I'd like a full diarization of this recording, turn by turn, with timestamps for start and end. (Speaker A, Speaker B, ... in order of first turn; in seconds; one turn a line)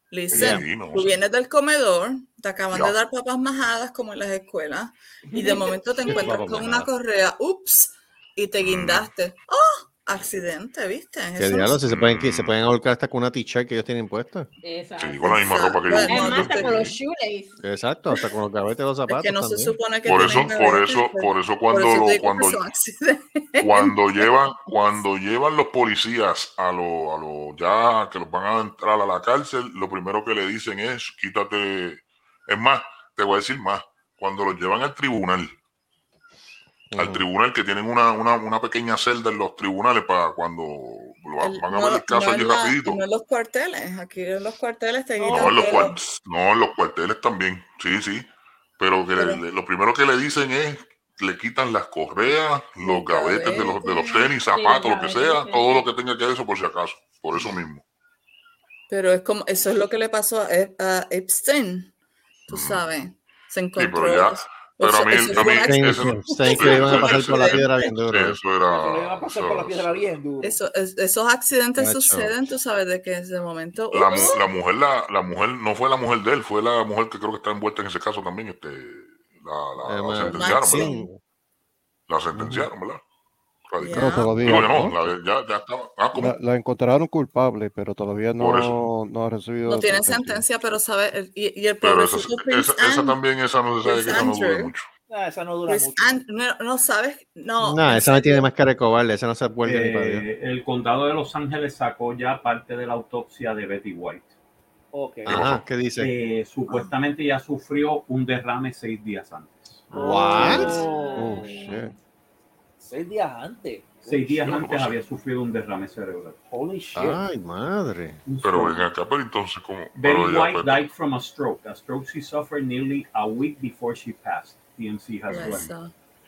Speaker A: 0.1-11.8
Speaker B: 0.3-1.1
Speaker B: 2.7-3.0
Speaker C: 5.3-6.3
Speaker D: 6.1-6.9
Speaker B: 8.6-9.1
Speaker D: 11.4-14.5
Speaker B: 11.9-12.5
Speaker C: 14.6-17.6
Speaker B: 15.0-17.0
Speaker A: 15.2-16.8
Speaker D: 17.6-20.5
Speaker A: 19.1-24.3
Speaker B: 20.0-22.6
Speaker B: 23.6-35.5
Speaker D: 36.9-37.3
Speaker B: 37.0-43.0
Speaker A: 41.4-46.0
Speaker C: 45.2-45.9
Speaker B: 45.3-48.3
Speaker B: 48.8-57.8
Speaker A: 49.1-49.4
Speaker A: 52.8-54.3
Speaker C: 54.5-56.0
Speaker A: 58.9-61.9
Speaker B: 62.5-62.8
Speaker A: 62.5-67.9
Speaker B: 63.7-70.2
Speaker D: 65.4-68.4
Speaker E: 68.6-70.6
Speaker A: 70.4-74.5
Speaker D: 71.8-72.3
Speaker B: 73.9-80.9
Speaker D: 79.8-81.2
Speaker A: 80.1-81.1
Speaker B: 82.1-83.0
Speaker D: 82.3-82.7
Speaker B: 83.7-86.3
Speaker A: 83.8-84.8
Speaker F: 83.9-84.9
Speaker D: 84.5-85.0
Speaker F: 86.1-90.4
Speaker B: 88.4-88.8
Speaker A: 89.6-93.2
Speaker B: 91.8-94.9
Speaker A: 93.8-94.7
Speaker E: 95.1-96.1
Speaker A: 95.7-98.5
Speaker D: 97.6-100.3
Speaker G: 99.6-104.3
Speaker E: 104.9-105.4
Speaker B: 105.3-105.7
Speaker D: 105.3-106.1
Speaker G: 106.0-109.8
Speaker E: 109.9-111.7
Speaker D: 109.9-110.8
Speaker F: 109.9-110.7
Speaker C: 110.3-111.7
Speaker F: 111.2-111.9
Speaker E: 112.8-114.6
Speaker G: 114.0-116.9
Speaker B: 114.4-115.0
Speaker E: 116.5-117.2
Speaker D: 116.9-118.2
Speaker G: 118.2-118.9
Speaker B: 118.4-120.9
Speaker G: 120.0-125.7
Speaker A: 125.3-125.9